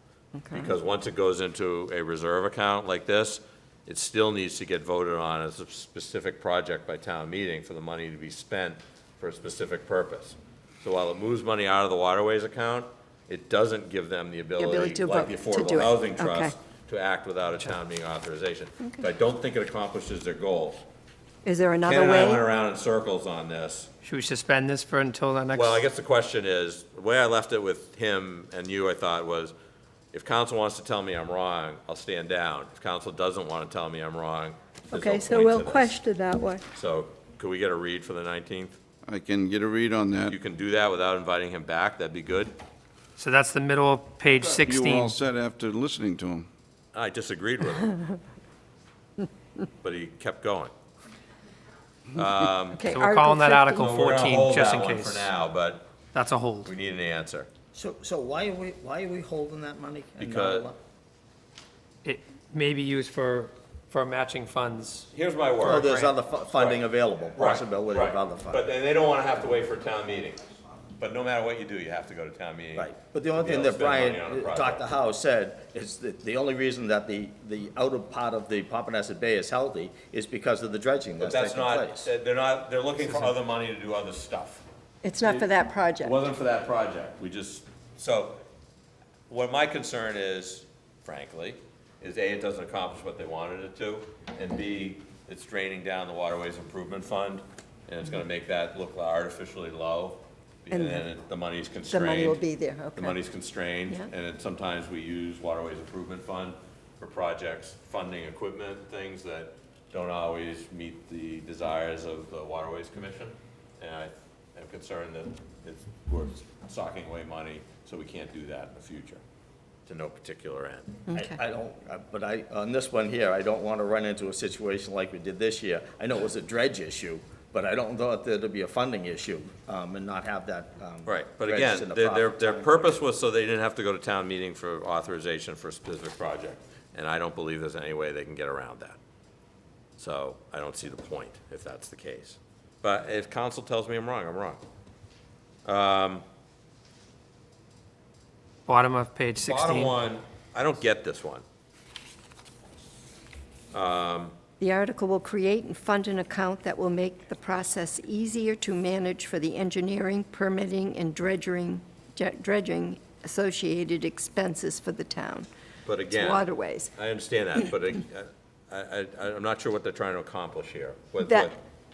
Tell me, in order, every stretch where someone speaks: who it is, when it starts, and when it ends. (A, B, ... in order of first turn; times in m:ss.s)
0:00.3-0:00.7 A
0:00.5-0:20.8 B
0:14.6-0:16.5 A
0:21.4-0:22.4 A
0:21.8-0:23.9 B
0:24.0-0:25.8 C
0:25.5-0:29.5 B
0:30.1-0:35.9 B
0:34.9-0:36.6 A
0:36.7-0:38.8 B
0:39.0-0:40.4 D
0:40.3-0:42.5 B
0:43.2-0:45.1 C
0:44.3-0:46.5 D
0:46.9-0:48.0 B
0:49.8-0:50.7 B
0:52.2-0:52.8 B
0:52.7-0:54.0 A
0:52.8-0:55.3 C
0:53.8-0:55.9 B
0:56.0-0:56.7 C
0:56.6-0:57.5 B
0:57.7-1:00.8 E
1:00.2-1:00.7 B
1:02.0-1:05.1 C
1:05.1-1:06.0 B
1:05.6-1:08.6 E
1:06.5-1:06.8 B
1:07.3-1:10.4 B
1:11.0-1:14.8 B
1:12.8-1:22.0 E
1:21.2-1:24.6 B
1:23.0-1:23.3 C
1:25.0-1:26.2 A
1:26.0-1:28.4 B
1:29.3-1:42.4 B
1:40.7-1:41.0 A
1:41.9-1:43.2 A
1:43.0-1:59.2 B
1:59.9-2:01.0 B
2:01.1-2:01.4 A
2:01.1-2:13.0 E
2:11.0-2:19.0 B
2:20.0-2:24.6 B
2:25.6-2:26.2 B
2:28.7-2:29.9 C
2:29.4-2:31.4 B
2:33.7-2:34.3 B
2:34.6-2:45.5 A
2:45.8-2:51.6 B
2:46.1-2:46.9 A
2:51.2-2:51.5 A